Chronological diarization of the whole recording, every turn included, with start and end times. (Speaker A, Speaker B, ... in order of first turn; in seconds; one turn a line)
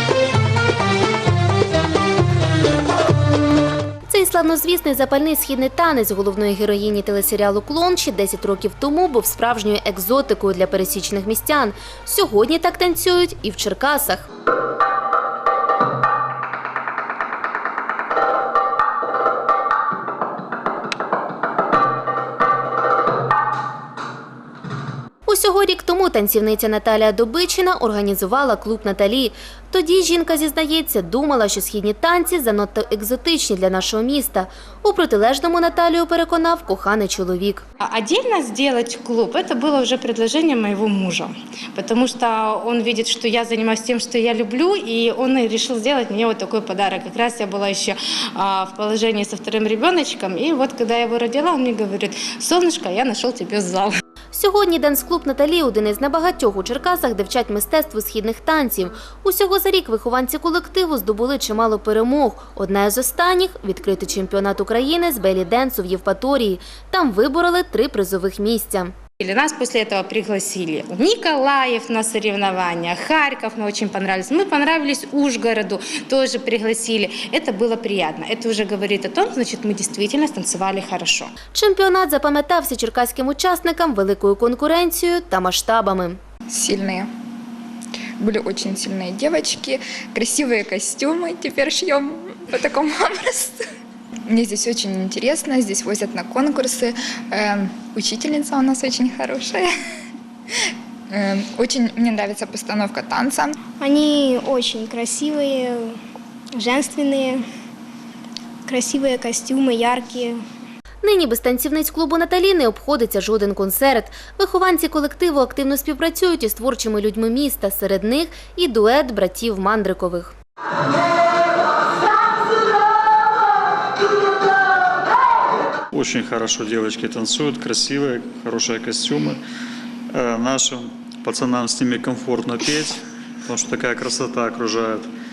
Speaker A: 4.1-14.3
Speaker A: 25.2-37.6
Speaker B: 37.8-54.0
Speaker A: 54.3-68.9
Speaker B: 69.2-81.3
Speaker A: 81.5-86.2
Speaker C: 86.5-87.1
Speaker C: 88.2-93.6
Speaker C: 94.3-99.7
Speaker C: 101.1-103.5
Speaker D: 103.8-106.0
Speaker D: 106.5-107.4
Speaker D: 108.7-110.4
Speaker A: 111.0-120.3
Speaker E: 125.9-129.4
Speaker E: 130.1-135.1